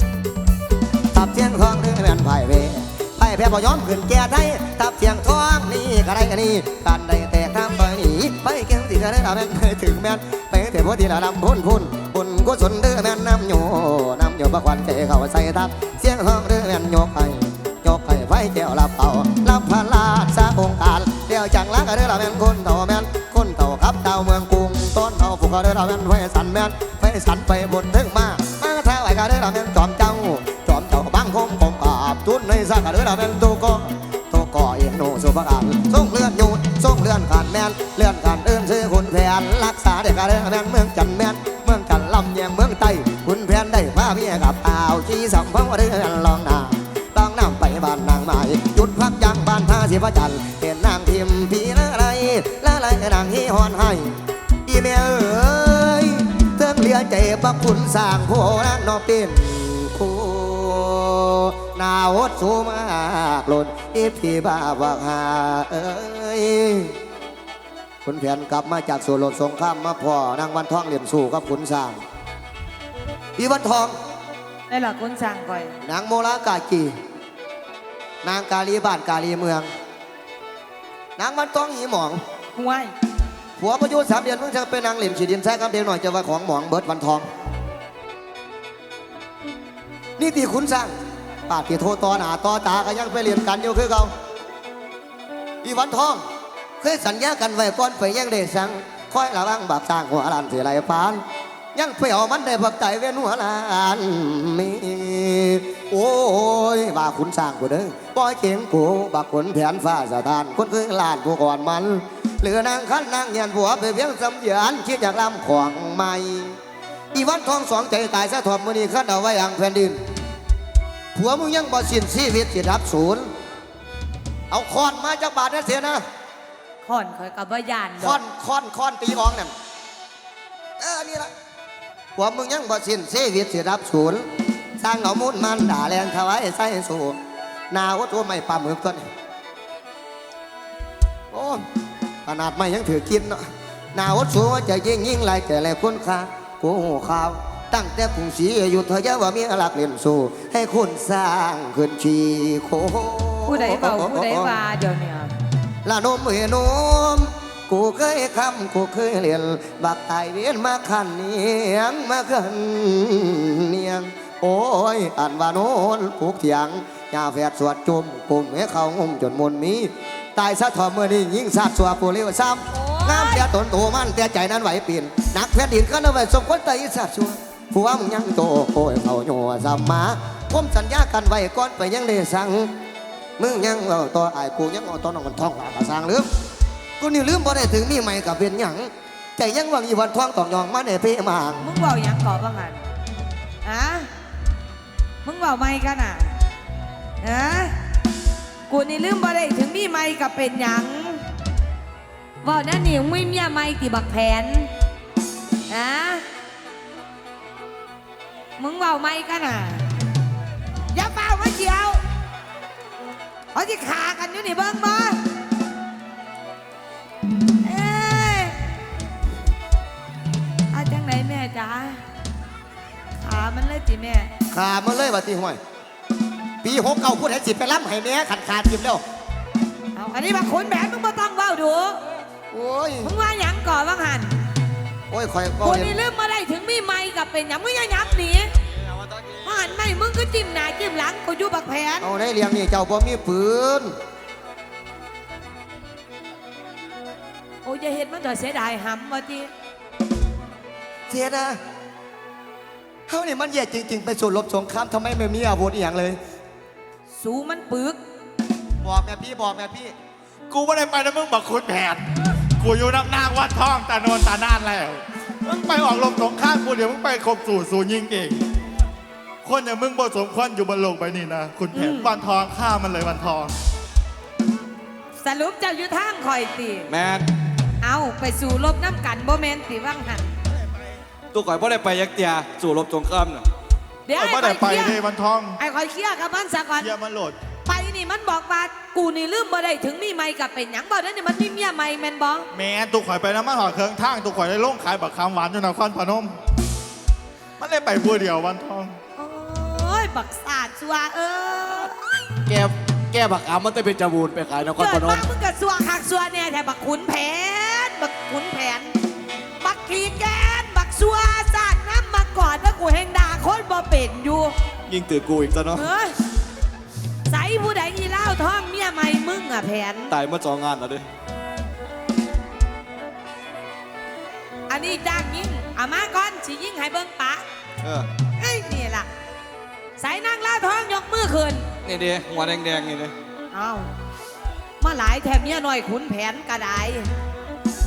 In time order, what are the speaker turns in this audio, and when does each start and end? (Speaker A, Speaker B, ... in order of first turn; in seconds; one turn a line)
Speaker A: 1.1-66.9
Speaker A: 68.0-72.0
Speaker A: 73.4-73.9
Speaker B: 74.7-75.8
Speaker A: 75.8-76.9
Speaker A: 78.2-79.7
Speaker A: 81.2-82.2
Speaker B: 82.5-82.9
Speaker A: 83.6-87.3
Speaker A: 90.2-90.9
Speaker A: 91.5-94.1
Speaker A: 95.6-96.2
Speaker A: 96.8-101.2
Speaker A: 101.7-116.6
Speaker A: 117.1-120.0
Speaker A: 121.1-123.3
Speaker A: 124.5-126.0
Speaker B: 126.8-128.2
Speaker A: 128.0-129.5
Speaker A: 130.8-131.3
Speaker A: 132.2-134.2
Speaker A: 134.8-137.2
Speaker A: 137.7-139.1
Speaker A: 141.3-141.6
Speaker A: 142.2-154.5
Speaker B: 153.5-155.3
Speaker A: 155.8-182.8
Speaker B: 172.7-173.5
Speaker A: 183.4-186.3
Speaker A: 187.0-191.7
Speaker B: 191.6-192.8
Speaker B: 193.6-194.1
Speaker B: 195.2-196.3
Speaker B: 197.2-197.8
Speaker B: 198.7-201.2
Speaker B: 202.4-204.7
Speaker B: 205.7-206.2
Speaker B: 208.6-209.8
Speaker B: 210.9-212.0
Speaker B: 213.5-215.2
Speaker B: 217.6-218.6
Speaker B: 220.7-222.0
Speaker B: 223.2-224.3
Speaker A: 224.5-225.6
Speaker A: 226.6-229.0
Speaker B: 229.9-232.0
Speaker A: 232.5-233.1
Speaker B: 233.0-234.3
Speaker A: 235.1-235.9
Speaker B: 235.6-238.5
Speaker B: 239.4-242.1
Speaker A: 242.0-243.9
Speaker B: 247.6-249.5
Speaker A: 251.1-251.6
Speaker A: 253.1-256.2
Speaker B: 257.1-258.0
Speaker A: 258.8-259.9
Speaker C: 260.5-262.1
Speaker C: 262.6-268.4
Speaker C: 269.4-273.5
Speaker B: 271.7-272.1
Speaker B: 275.2-276.9
Speaker D: 276.9-277.3
Speaker B: 277.8-280.3
Speaker D: 281.3-283.5
Speaker B: 284.1-285.0
Speaker C: 284.1-285.6
Speaker B: 285.6-286.9
Speaker C: 286.8-287.4
Speaker B: 287.6-292.5
Speaker C: 292.5-296.4
Speaker C: 297.6-298.9
Speaker B: 299.2-302.0
Speaker D: 302.4-305.2
Speaker B: 304.8-308.9
Speaker B: 309.6-314.5
Speaker D: 314.9-315.9
Speaker B: 315.7-316.1
Speaker B: 317.3-320.1
Speaker D: 320.1-321.1
Speaker B: 324.7-327.4
Speaker D: 327.8-328.1
Speaker B: 328.4-329.1
Speaker B: 330.0-331.7
Speaker D: 331.8-333.1
Speaker B: 333.5-333.9
Speaker B: 334.8-337.1